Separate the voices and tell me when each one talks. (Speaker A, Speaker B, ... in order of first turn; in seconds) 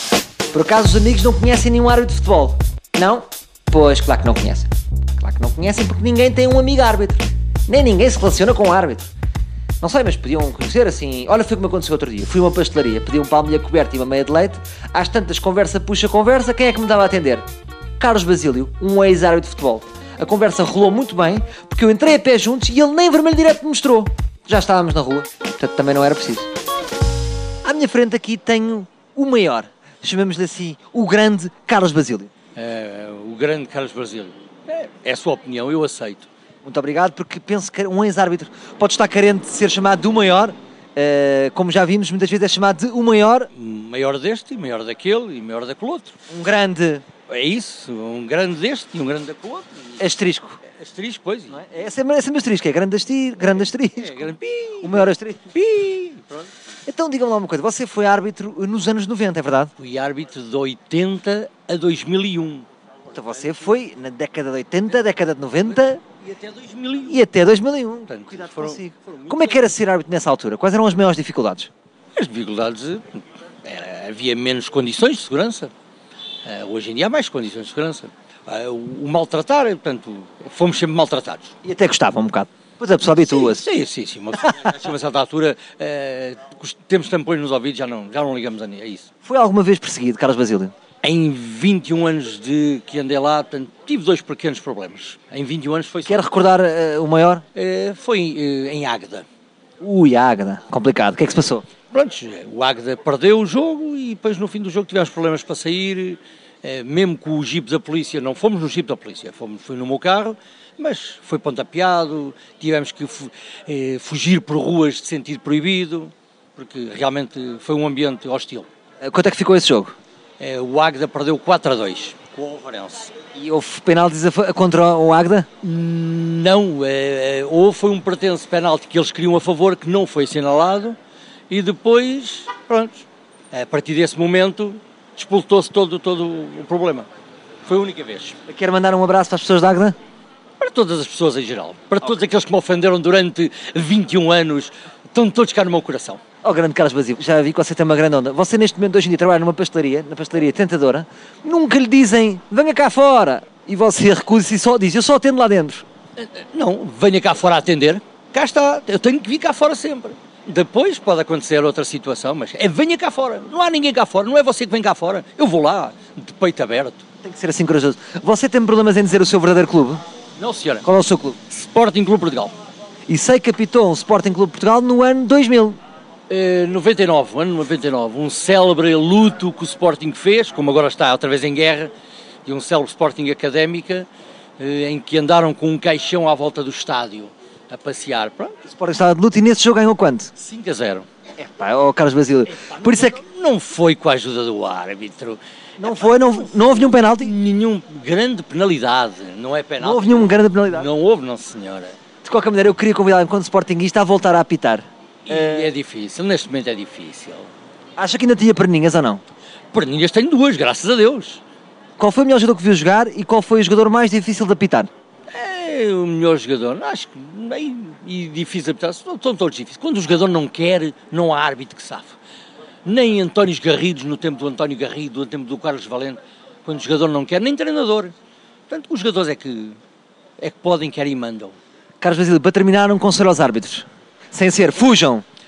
Speaker A: 0.5-9.1, 9.8-17.4, 18.0-26.5, 27.6-32.3, 36.6-43.5, 46.3-47.0, 50.0-50.6, 51.5-55.5, 56.9-59.7, 63.1-66.0, 67.1-71.7, 81.6-83.7, 89.2-90.7, 96.1-97.5, 99.8-101.7, 119.0-120.0, 123.3-125.5, 138.5-140.0, 146.4-155.8, 167.2-170.0, 170.8-171.4, 173.1-175.8, 188.7-190.3, 191.4-193.2, 195.8-197.3, 199.8-200.9, 202.2-205.7, 208.0-209.2, 212.0-214.9, 232.0-235.2
Speaker B: 32.6-36.3, 43.5-46.1, 47.3-50.0, 50.6-51.6, 54.0-56.5, 59.8-62.7, 66.2-67.2, 68.1-69.7, 72.2-75.7, 76.4-81.5, 83.2-89.1, 91.0-96.2, 97.5-99.3, 101.9-118.7, 120.4-123.1, 125.6-131.0, 131.5-137.1, 137.7-138.4, 140.6-146.2, 156.2-167.0, 170.4-170.8, 171.5-172.6, 176.3-181.9, 182.5-184.1, 184.6-188.6, 190.4-191.1, 192.5-202.0, 205.2-207.5, 209.7-211.4, 215.3-222.2, 222.8-228.1, 228.7-229.8, 230.4-231.6